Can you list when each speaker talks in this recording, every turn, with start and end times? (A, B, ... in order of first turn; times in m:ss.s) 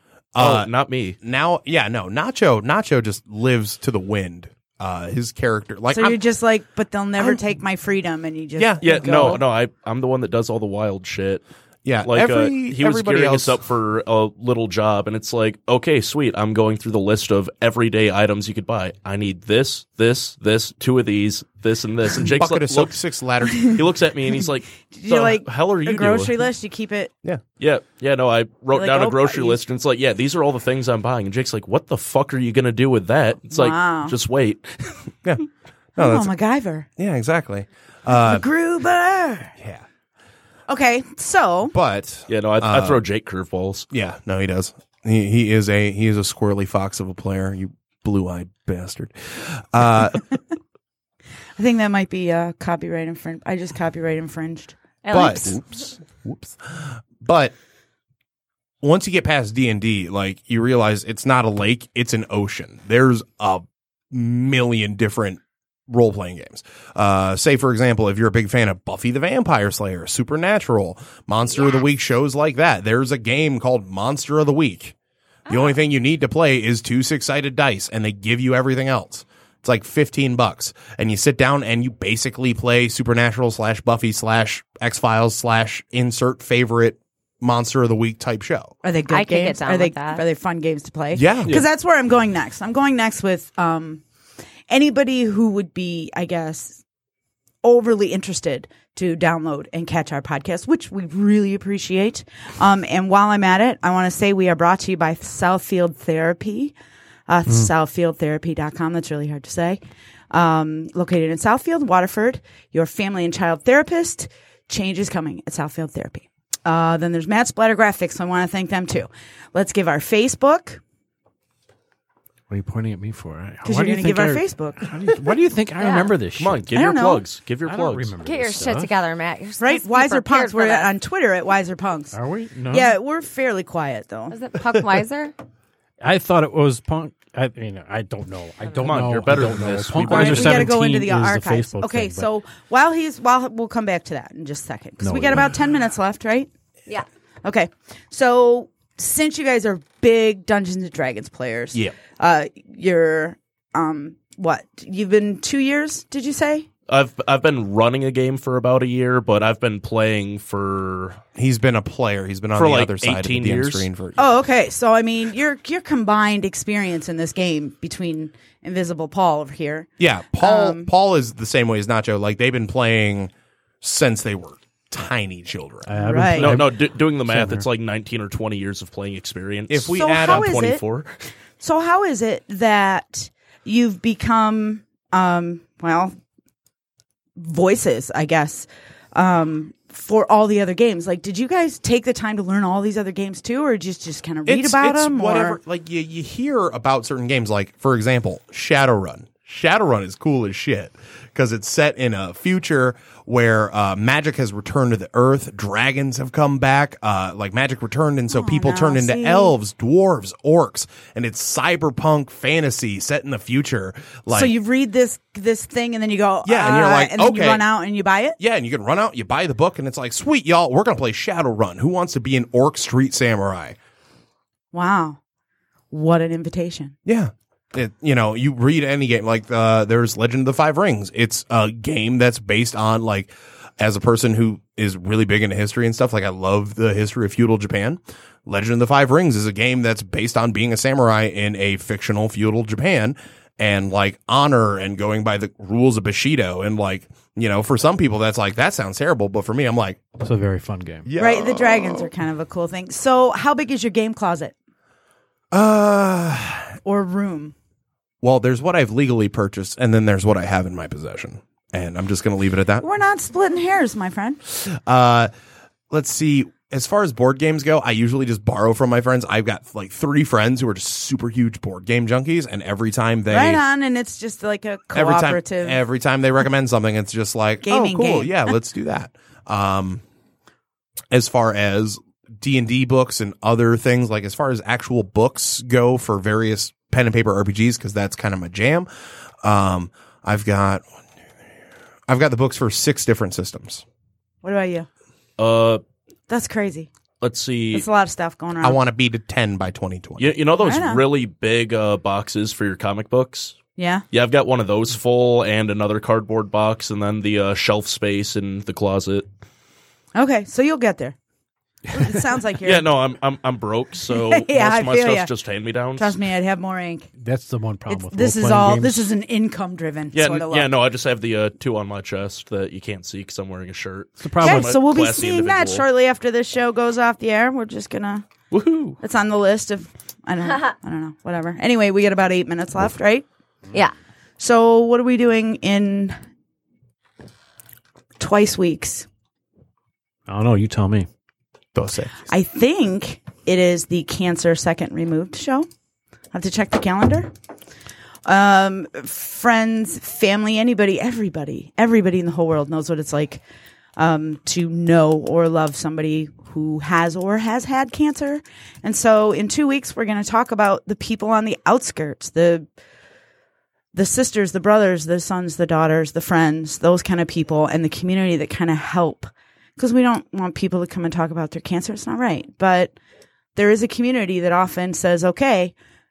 0:00.3-0:06.2 A
0:00.4-0:01.2 B
0:05.9-0:09.4 C
0:08.6-0:09.4 A
0:08.8-0:11.4 B
0:11.8-0:13.6 A
0:12.0-0:22.9 B
0:22.2-0:23.8 A
0:23.6-0:26.3 B
0:24.9-0:27.1 C
0:27.6-0:34.8 B
0:28.7-0:29.6 C
0:33.5-0:34.2 C
0:36.0-0:36.3 A
0:36.0-0:36.9 C
0:37.0-0:38.4 A
0:38.1-0:39.5 C
0:40.7-0:41.7 C
0:41.7-0:43.0 A
0:42.3-0:43.8 B
0:43.9-0:50.4 A
0:51.6-0:55.6 C
0:55.0-0:55.6 D
0:55.1-0:57.5 A
0:58.8-1:14.9 A
1:15.5-1:28.7 A
1:15.5-1:15.7 D
1:28.8-1:34.0 C
1:29.1-1:30.2 D
1:31.1-1:31.6 A
1:34.7-1:36.8 C
1:37.6-1:46.7 C
1:47.3-1:49.8 C
1:50.3-2:00.8 C
2:02.5-2:06.7 E
2:03.6-2:04.8 C
2:05.8-2:06.1 D
2:06.4-2:08.1 B
2:06.7-2:07.2 C
2:07.6-2:08.9 E
2:08.2-2:10.9 D
2:09.6-2:12.1 C
2:12.1-2:12.9 E
2:12.7-2:14.4 C
2:14.3-2:15.3 D
2:16.0-2:22.3 E
2:18.8-2:20.8 B
2:20.0-2:26.5 C
2:25.0-2:25.5 E
2:27.4-2:36.7 C
2:36.9-2:41.2 B
2:41.4-2:44.3 A
2:42.5-2:43.9 B
2:44.2-2:49.9 C
2:50.0-2:53.3 A
2:50.4-2:50.9 C
2:53.8-2:55.9 A
2:55.8-2:57.6 E
2:56.0-2:56.6 C
2:56.4-3:01.2 B
2:59.7-3:00.6 A
2:59.9-3:00.8 C
3:01.6-3:06.1 C
3:07.4-3:15.6 C
3:14.5-3:34.5 A
3:28.3-3:29.5 C
3:34.3-3:38.4 C
3:36.4-3:37.6 A
3:38.4-3:43.8 A
3:44.7-3:45.2 C
3:45.9-3:46.9 C
3:47.0-4:10.0 A
4:10.2-4:11.1 E
4:11.0-4:12.1 A
4:11.2-4:14.5 C
4:15.5-4:16.8 A
4:16.8-4:17.5 C
4:18.2-4:22.8 A
4:22.8-4:24.4 C
4:24.5-4:25.3 A
4:25.9-4:33.6 A
4:33.3-4:35.8 C
4:34.9-4:40.0 A
4:37.6-4:38.5 C
4:41.1-4:48.9 A
4:49.4-4:50.8 A
4:52.1-4:53.8 A
4:54.4-4:54.9 C
4:55.4-4:55.8 B
4:56.3-4:56.9 C
4:57.2-4:57.9 B
4:57.7-4:58.8 C
4:58.6-5:00.4 A
5:00.2-5:03.6 B
5:00.6-5:01.0 C
5:03.8-5:04.0 C
5:04.1-5:09.2 B
5:10.1-5:11.2 C
5:11.9-5:12.9 C
5:12.6-5:16.2 B
5:14.1-5:15.3 C
5:16.0-5:17.1 C
5:17.2-5:19.1 E
5:17.9-5:20.7 C
5:20.1-5:25.8 B
5:24.2-5:24.7 E
5:24.4-5:28.2 C
5:28.5-5:29.0 B
5:29.0-5:33.2 C
5:34.4-5:36.1 C
5:38.2-5:39.1 C
5:40.3-5:41.1 E
5:41.7-5:42.2 A
5:42.2-5:45.7 C
5:46.3-5:47.3 C
5:48.2-5:53.4 C
5:54.0-6:02.7 C
6:03.9-6:12.9 C
6:13.5-6:15.7 C